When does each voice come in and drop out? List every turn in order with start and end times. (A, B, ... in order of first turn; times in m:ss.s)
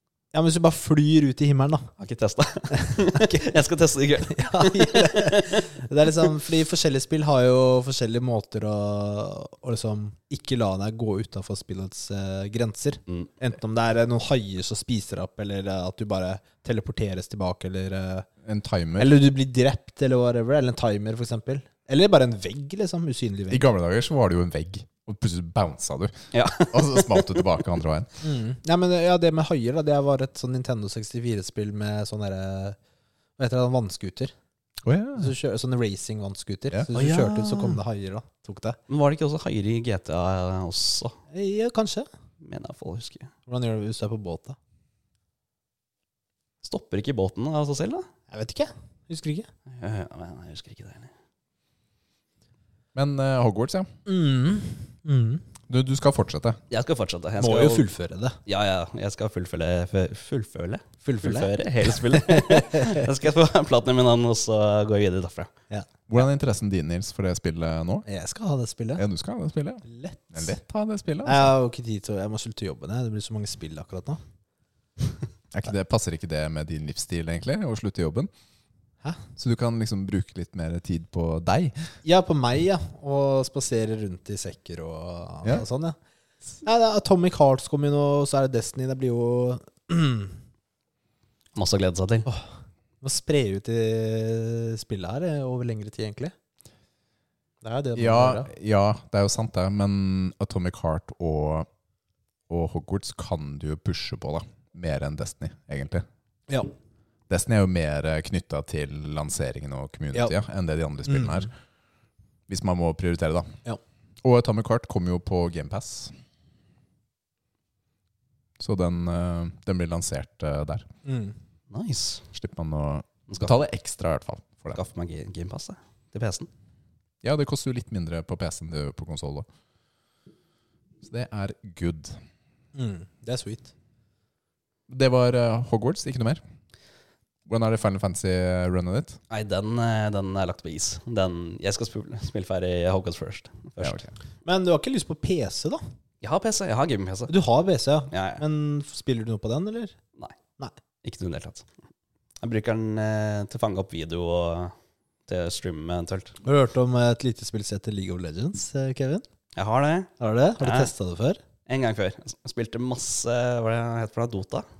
0:00.3-0:01.9 A
0:02.0-0:05.7 B
0:02.8-0:03.4 A
0:04.4-0:18.3 A
0:18.4-0:19.2 C
0:19.0-0:23.7 A
0:23.5-0:28.1 C
0:26.3-0:27.5 B
0:28.2-0:32.8 A
0:33.4-0:34.3 A
0:34.8-0:35.3 C
0:35.2-0:38.8 A
0:36.9-0:37.8 B
0:38.9-0:41.2 B
0:41.3-0:42.1 A
0:42.4-0:43.3 B
0:43.5-0:44.6 A
0:46.6-0:48.1 B
0:48.3-0:49.5 A
0:49.7-0:51.1 B
0:53.0-0:53.9 C
0:54.1-0:55.4 A
0:55.7-0:56.6 C
0:56.7-0:57.9 B
0:57.4-0:58.4 A
0:58.5-1:05.5 B
1:01.0-1:03.0 A
1:06.1-1:08.0 C
1:08.1-1:09.0 A
1:09.0-1:11.5 C
1:09.8-1:10.6 A
1:11.2-1:14.2 A
1:15.5-1:18.3 C
1:19.4-1:21.8 C
1:22.0-1:26.0 A
1:26.6-1:30.4 A
1:31.6-1:32.3 B
1:33.0-1:36.3 A
1:37.6-1:38.5 A
1:38.0-1:41.7 C
1:42.5-1:46.0 C
1:47.3-1:51.5 C
1:51.1-1:51.5 A
1:52.5-1:53.5 C
1:54.2-1:56.1 C
1:58.6-2:00.9 C
2:01.0-2:01.4 A
2:01.7-2:02.2 B
2:02.3-2:04.8 C
2:04.7-2:06.5 B
2:07.2-2:09.5 C
2:11.0-2:12.2 C
2:12.8-2:13.7 A
2:14.9-2:16.4 C
2:17.5-2:19.2 C
2:19.3-2:24.1 B
2:23.8-2:24.1 C
2:24.4-2:25.8 A
2:26.2-2:27.3 B
2:27.3-2:30.0 A
2:28.1-2:28.4 B
2:31.0-2:31.7 B
2:32.4-2:34.7 B
2:35.3-2:36.4 B
2:36.4-2:39.2 A
2:39.6-2:40.9 B
2:40.2-2:41.4 A
2:41.7-2:44.7 B